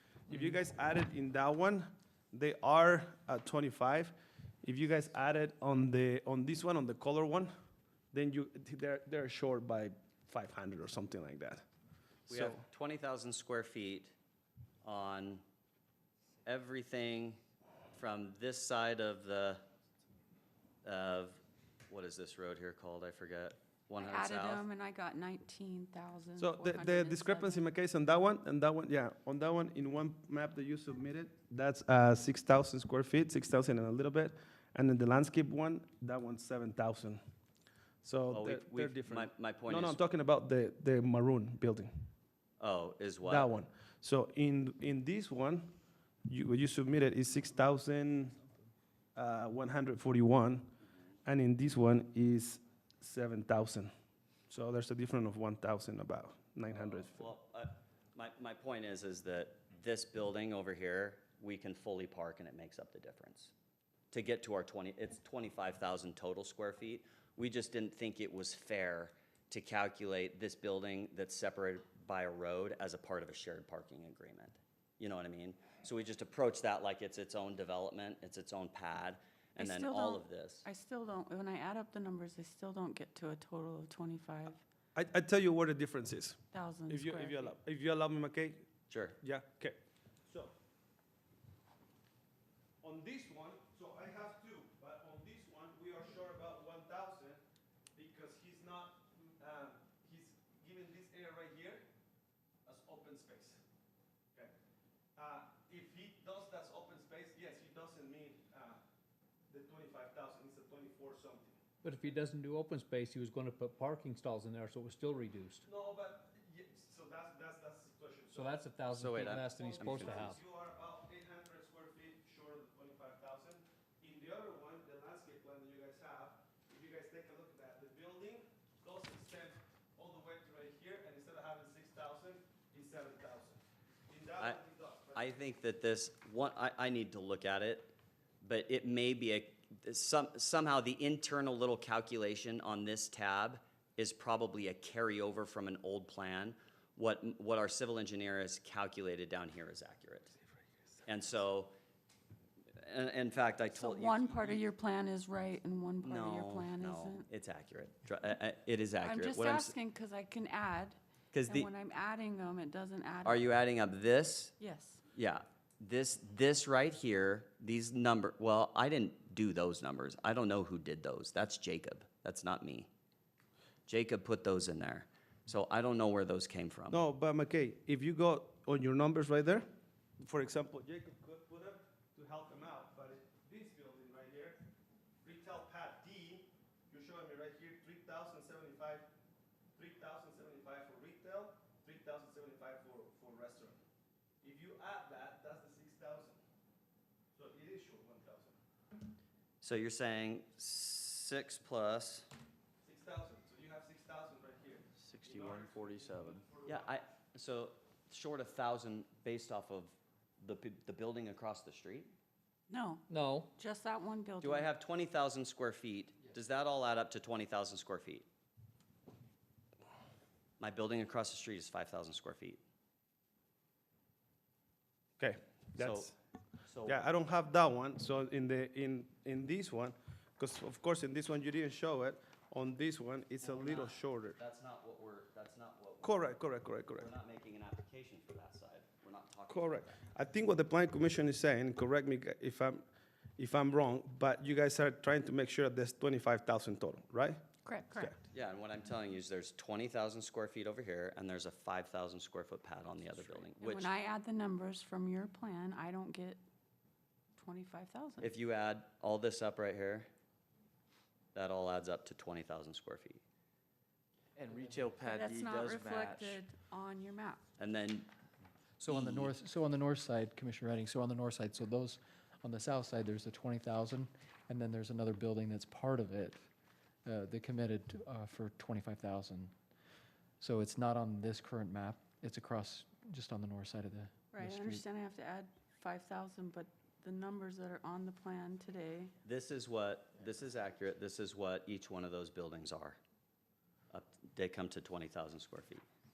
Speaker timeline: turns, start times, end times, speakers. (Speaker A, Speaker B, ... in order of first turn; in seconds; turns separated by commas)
Speaker A: 0.3-7.5, Speaker A: 8.1-11.7, Speaker B: 12.3-14.1, Speaker A: 12.3-12.6, Speaker B: 14.8-15.4, Speaker B: 16.4-17.4, Speaker B: 17.9-19.6, Speaker B: 20.8-24.6, Speaker C: 24.0-27.6, Speaker A: 26.4-37.2, Speaker A: 38.0-41.9, Speaker B: 38.3-40.0, Speaker B: 42.6-43.5, Speaker A: 43.2-45.7, Speaker A: 46.3-48.4, Speaker A: 49.1-50.7, Speaker A: 51.2-53.9, Speaker A: 54.5-57.2, Speaker B: 56.7-63.5, Speaker B: 64.1-80.7, Speaker C: 79.6-84.6, Speaker A: 84.9-88.7, Speaker C: 86.5-87.5, Speaker B: 88.9-89.2, Speaker A: 89.2-90.5, Speaker A: 92.8-97.4, Speaker A: 97.9-101.8, Speaker A: 102.7-103.6, Speaker A: 105.2-108.8, Speaker A: 109.5-111.6, Speaker D: 111.8-115.6, Speaker A: 115.6-118.6, Speaker D: 118.3-120.4, Speaker B: 118.9-120.2, Speaker A: 119.4-135.2, Speaker B: 135.1-150.3, Speaker B: 151.1-151.7, Speaker B: 152.8-154.6, Speaker C: 153.7-157.3, Speaker B: 156.0-159.7, Speaker C: 159.0-163.5, Speaker B: 161.3-161.7, Speaker B: 163.2-164.5, Speaker C: 164.6-165.0, Speaker B: 165.1-172.9, Speaker B: 173.9-177.0, Speaker A: 176.9-179.7, Speaker A: 180.2-184.6, Speaker A: 185.2-189.1, Speaker A: 189.8-193.8, Speaker A: 194.4-196.4, Speaker A: 197.3-198.6, Speaker B: 199.6-202.3, Speaker A: 202.8-207.1, Speaker E: 204.9-206.4, Speaker B: 206.6-212.1, Speaker C: 212.7-214.7, Speaker D: 213.1-213.5, Speaker B: 214.4-218.3, Speaker B: 220.6-222.6, Speaker A: 225.2-226.2, Speaker B: 225.8-226.1, Speaker B: 226.7-227.0, Speaker A: 226.8-234.4, Speaker B: 233.4-236.3, Speaker A: 236.0-237.1, Speaker B: 236.9-240.0, Speaker A: 239.5-242.8, Speaker A: 243.4-247.4, Speaker C: 247.6-248.1, Speaker B: 248.3-253.9, Speaker C: 253.6-256.4, Speaker C: 257.4-258.3, Speaker B: 258.2-260.1, Speaker B: 261.3-263.2, Speaker E: 264.4-266.4, Speaker C: 265.0-267.4, Speaker B: 267.6-268.1, Speaker F: 268.8-276.4, Speaker B: 268.9-269.3, Speaker F: 277.0-279.5, Speaker F: 280.4-284.8, Speaker C: 284.3-289.1, Speaker B: 289.2-293.0, Speaker B: 293.9-295.8